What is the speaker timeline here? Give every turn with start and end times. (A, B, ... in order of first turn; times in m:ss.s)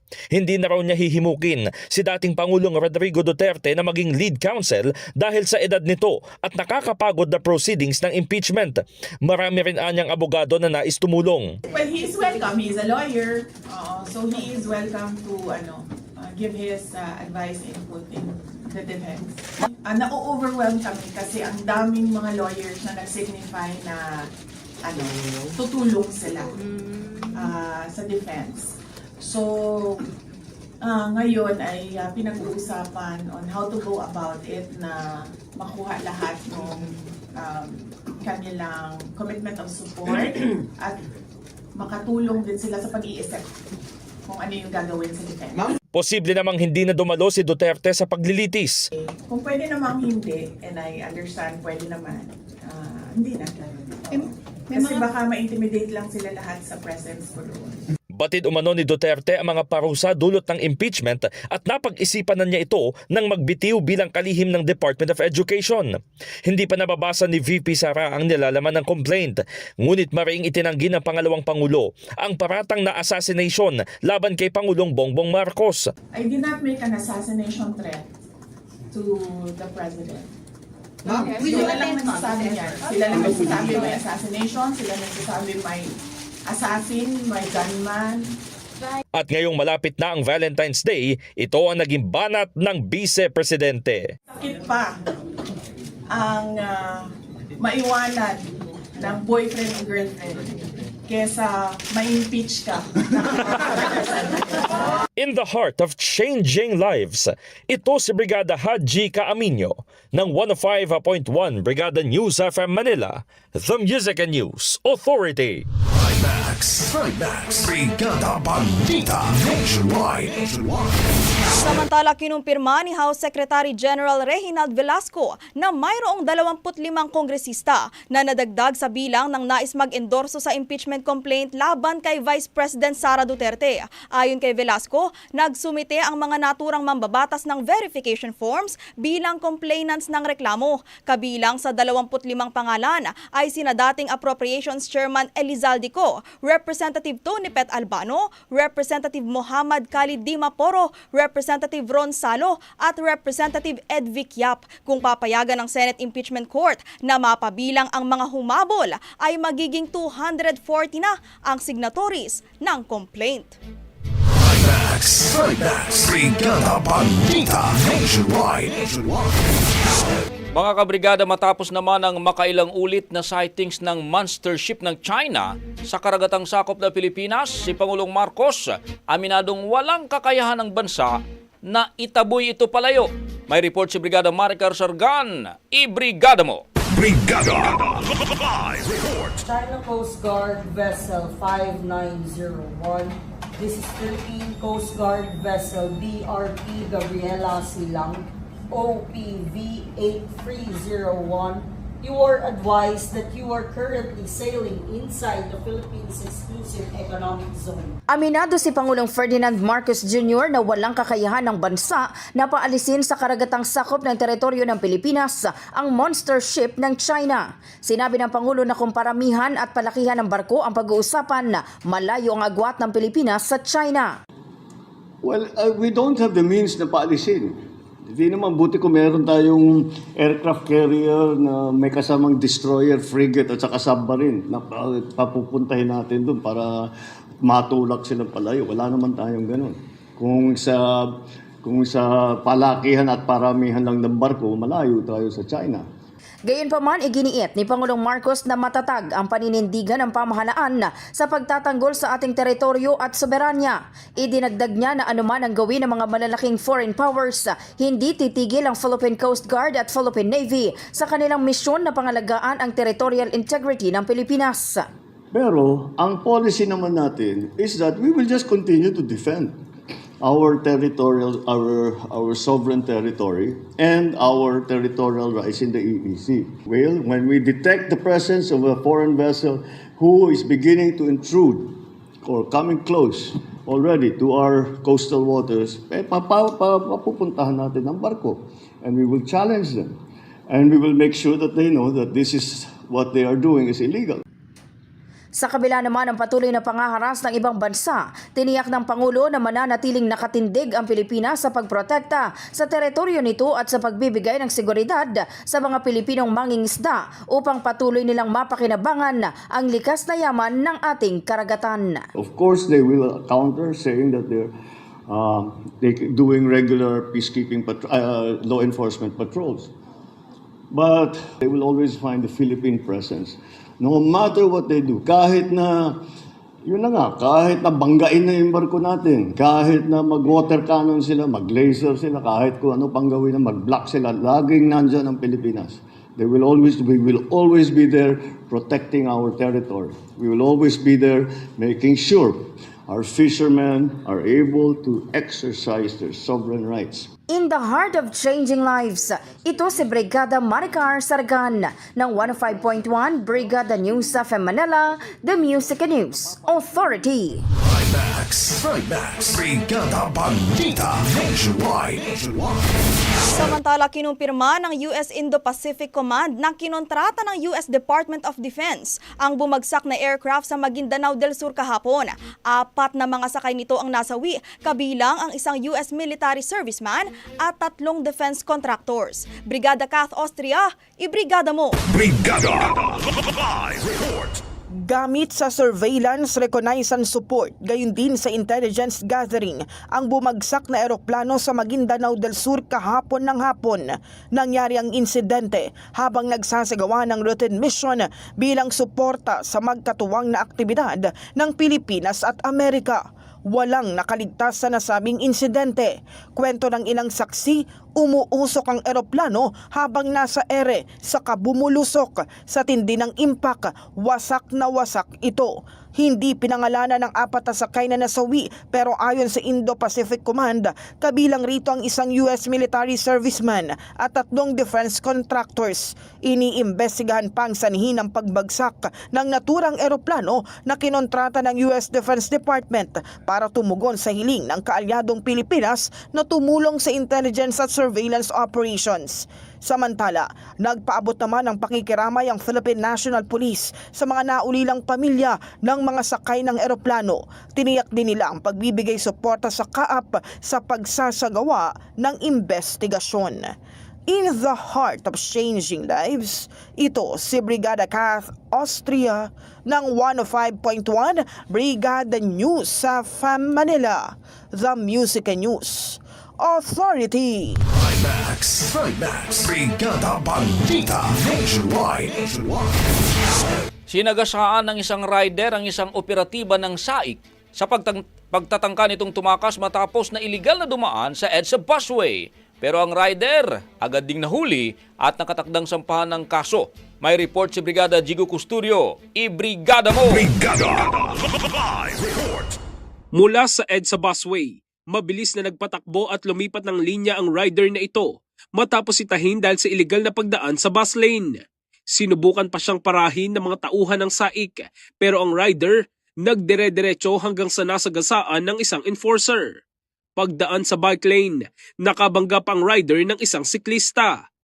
0:00.3-0:11.6 A
0:11.7-0:24.3 B
0:24.8-0:26.6 B
0:27.3-0:30.0 B
0:30.8-0:41.0 B
0:41.8-0:43.5 B
0:44.3-0:45.8 B
0:46.0-0:48.9 A
0:48.9-0:57.8 B
0:58.2-1:15.9 A
1:16.1-1:18.0 B
1:18.9-1:20.3 B
1:21.0-1:25.9 B
1:26.5-1:28.3 B
1:29.2-1:34.1 A
1:34.3-1:35.0 B
1:36.1-1:38.4 B
1:39.0-1:44.7 B
1:45.2-1:55.7 A
1:55.9-2:00.9 C
2:01.6-2:43.6 D
2:44.3-2:49.3 C
2:50.5-3:06.6 E
3:06.9-3:09.4 C
3:09.4-3:28.0 F
3:28.1-3:44.1 G
3:45.2-3:56.9 H
3:57.4-4:05.8 H
4:06.5-4:24.9 G
4:25.3-4:29.6 H
4:30.2-4:50.0 H
4:50.5-4:54.2 H
4:55.4-5:12.1 G
5:12.2-5:14.5 H
5:15.1-5:19.7 H
5:20.7-5:26.0 H
5:26.7-5:47.1 H
5:47.3-5:57.4 G
5:57.6-6:02.6 C
6:03.3-6:21.8 D
6:21.9-6:24.4 C
6:24.8-7:33.5 I
7:34.1-7:47.6 I
7:47.7-7:52.8 C
7:53.9-8:10.3 E
8:10.0-8:12.5 C
8:13.2-8:21.4 J
8:22.0-8:29.5 J
8:30.2-8:34.2 J